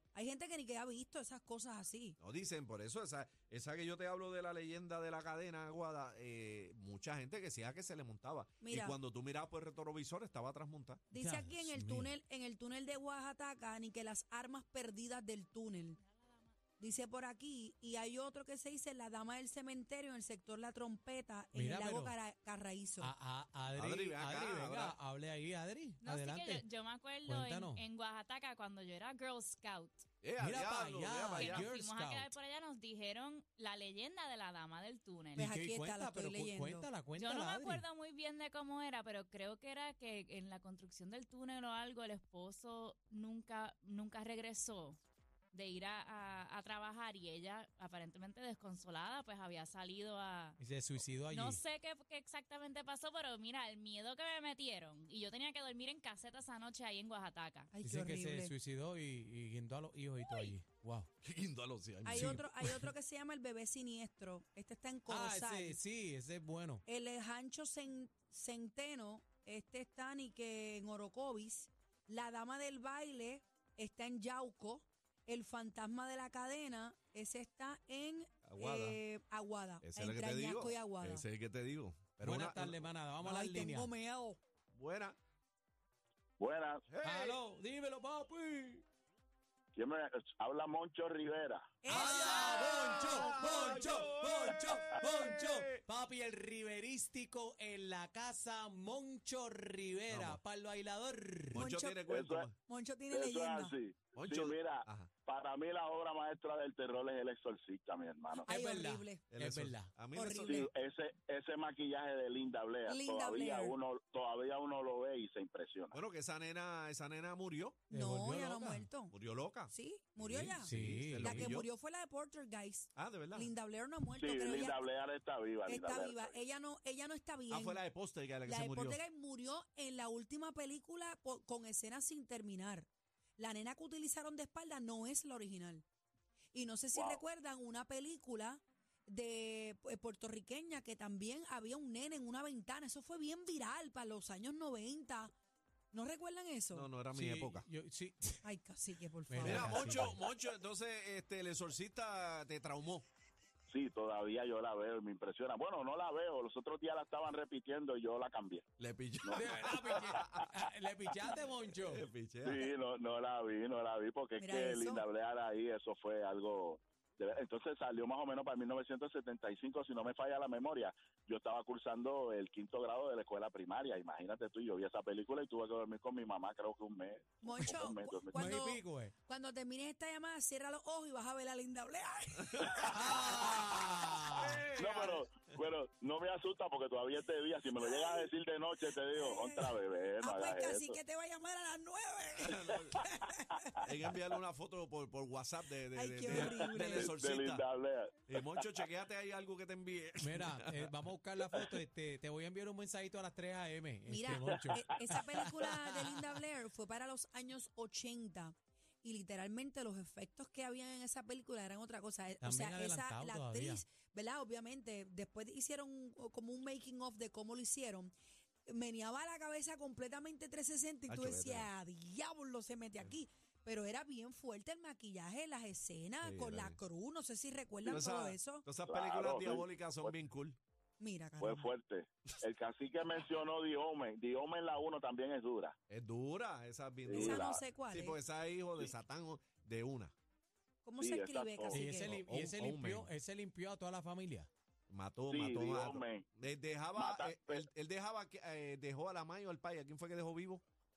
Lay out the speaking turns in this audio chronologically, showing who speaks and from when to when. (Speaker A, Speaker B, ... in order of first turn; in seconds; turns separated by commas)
Speaker A: 0.1-2.2, Speaker B: 2.2-11.0, Speaker A: 8.6-9.0, Speaker A: 11.1-16.0, Speaker C: 11.1-12.1, Speaker D: 15.9-16.6, Speaker A: 16.8-23.1, Speaker C: 21.6-22.2, Speaker C: 23.0-26.6, Speaker B: 23.8-25.0, Speaker D: 26.0-30.1, Speaker C: 27.2-27.8, Speaker B: 30.2-31.7, Speaker C: 30.4-32.3, Speaker D: 31.4-35.5, Speaker C: 35.3-37.8, Speaker A: 35.4-36.9, Speaker D: 37.2-45.0, Speaker D: 45.5-50.6, Speaker C: 50.6-51.6, Speaker D: 51.3-57.7, Speaker A: 57.7-58.5, Speaker C: 57.8-61.1, Speaker B: 61.2-62.8, Speaker A: 62.0-65.8, Speaker C: 62.1-62.4, Speaker C: 65.1-66.8, Speaker A: 66.9-81.2, Speaker B: 78.5-79.0, Speaker B: 79.8-82.9, Speaker C: 82.2-83.9, Speaker A: 83.2-84.4, Speaker B: 84.7-85.2, Speaker E: 86.4-86.9, Speaker B: 86.9-87.4, Speaker C: 87.0-88.8, Speaker E: 89.8-91.8, Speaker A: 91.8-93.7, Speaker C: 91.9-101.7, Speaker B: 92.0-95.8, Speaker B: 100.1-100.4, Speaker B: 101.5-102.6, Speaker A: 101.6-102.0, Speaker E: 102.1-102.5, Speaker A: 102.7-103.8, Speaker E: 103.1-108.5, Speaker B: 104.1-105.1, Speaker A: 108.5-109.2, Speaker C: 108.5-109.9, Speaker B: 109.3-110.6, Speaker A: 110.1-110.7, Speaker E: 110.4-116.0, Speaker A: 112.9-113.8, Speaker B: 115.9-117.8, Speaker A: 117.9-119.2, Speaker C: 117.9-118.9, Speaker B: 119.1-121.7, Speaker A: 119.7-124.8, Speaker C: 120.6-121.5, Speaker B: 123.0-123.5, Speaker E: 124.2-126.3, Speaker A: 125.7-127.8, Speaker B: 127.5-129.0, Speaker A: 128.4-135.8, Speaker A: 136.5-145.3, Speaker E: 136.9-137.2, Speaker A: 145.9-146.9, Speaker B: 146.7-147.7, Speaker C: 147.1-148.4, Speaker A: 148.4-150.0, Speaker C: 149.3-150.2, Speaker B: 149.4-153.1, Speaker E: 153.7-158.6, Speaker B: 158.8-160.5, Speaker E: 159.2-160.2, Speaker C: 159.3-162.1, Speaker B: 161.1-162.7, Speaker E: 162.4-178.7, Speaker A: 164.4-165.1, Speaker A: 177.4-183.0, Speaker C: 178.3-179.1, Speaker B: 182.4-183.2, Speaker E: 182.7-183.5, Speaker C: 182.9-184.7, Speaker B: 184.4-185.7, Speaker E: 184.5-191.0, Speaker A: 187.8-188.3, Speaker A: 189.1-193.8, Speaker B: 192.4-193.0, Speaker B: 193.8-197.7, Speaker A: 195.9-197.1, Speaker E: 196.3-198.7, Speaker B: 198.3-200.9, Speaker C: 200.2-206.2, Speaker A: 204.1-218.1, Speaker E: 204.5-204.8, Speaker C: 212.4-213.9, Speaker A: 218.7-228.7, Speaker B: 221.1-221.7, Speaker B: 226.2-226.8, Speaker B: 227.8-230.6, Speaker E: 228.9-230.2, Speaker A: 231.0-231.7, Speaker E: 231.4-235.8, Speaker B: 235.9-240.1, Speaker E: 237.1-237.6, Speaker A: 237.2-238.2, Speaker A: 240.8-242.2, Speaker E: 241.0-241.9, Speaker C: 241.7-244.5, Speaker B: 242.1-243.1, Speaker B: 244.9-250.6, Speaker E: 245.3-246.3, Speaker E: 247.0-247.7